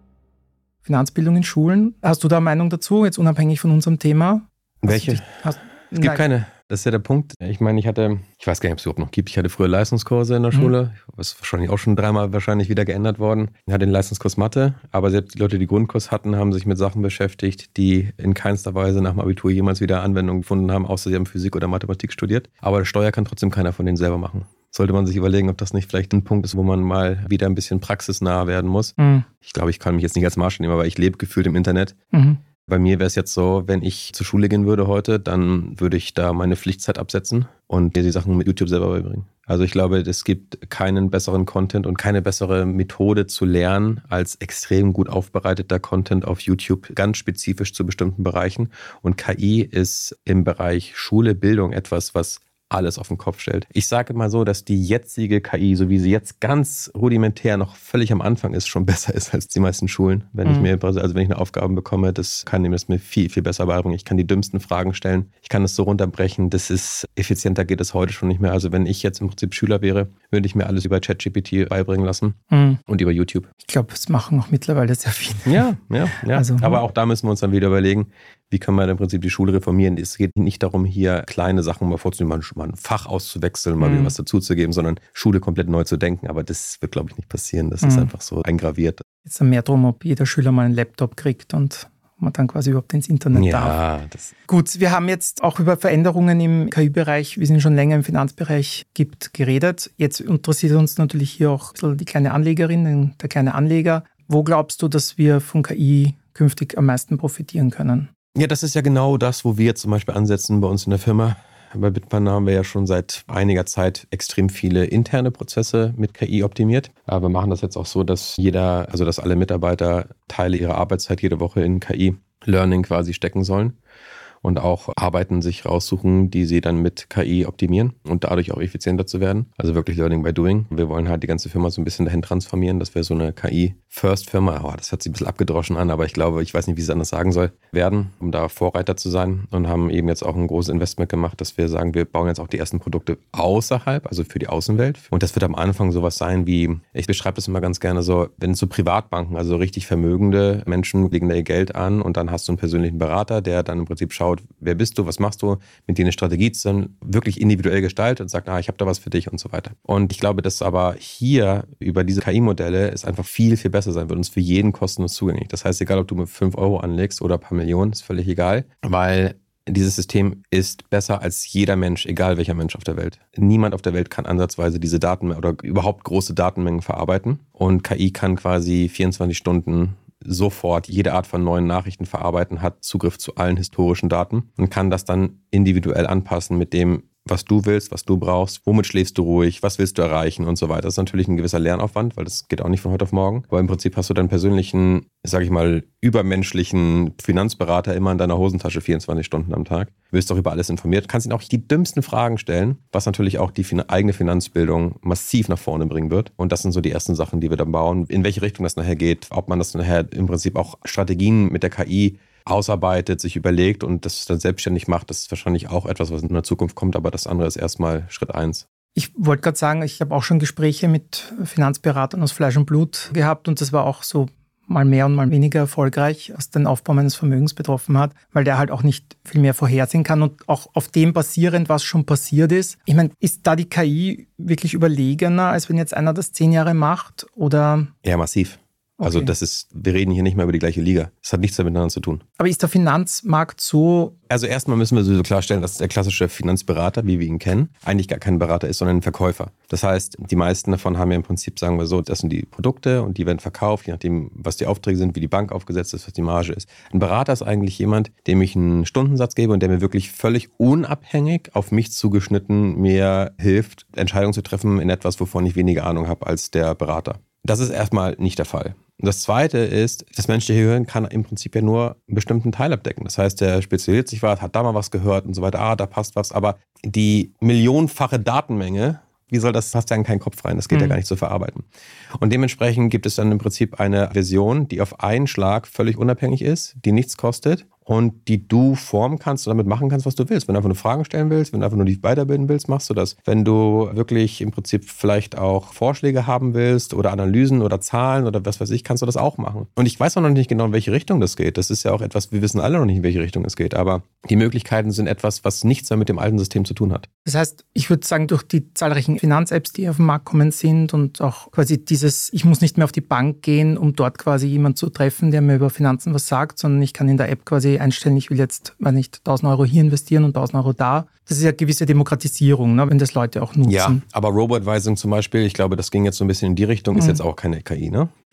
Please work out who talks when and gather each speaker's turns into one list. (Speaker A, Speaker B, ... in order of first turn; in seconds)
Speaker A: 0.8-6.2, 29.0-29.3, 32.1-32.4, 60.4-60.7, 72.5-72.8, 73.7-75.6, 76.3-76.8, 83.8-84.1, 87.8-88.1, 89.2-93.8, 94.5-108.1, 218.9-237.9, 239.0-239.3, 242.4-244.2, 280.7-281.0, 307.2-324.0, 326.9-327.2
Speaker B: 4.8-5.3, 6.0-31.9, 32.7-73.5, 75.4-89.0, 93.3-94.3, 108.3-123.8, 124.4-218.6, 238.0-242.2, 244.3-281.6, 282.2-307.1, 323.6-328.1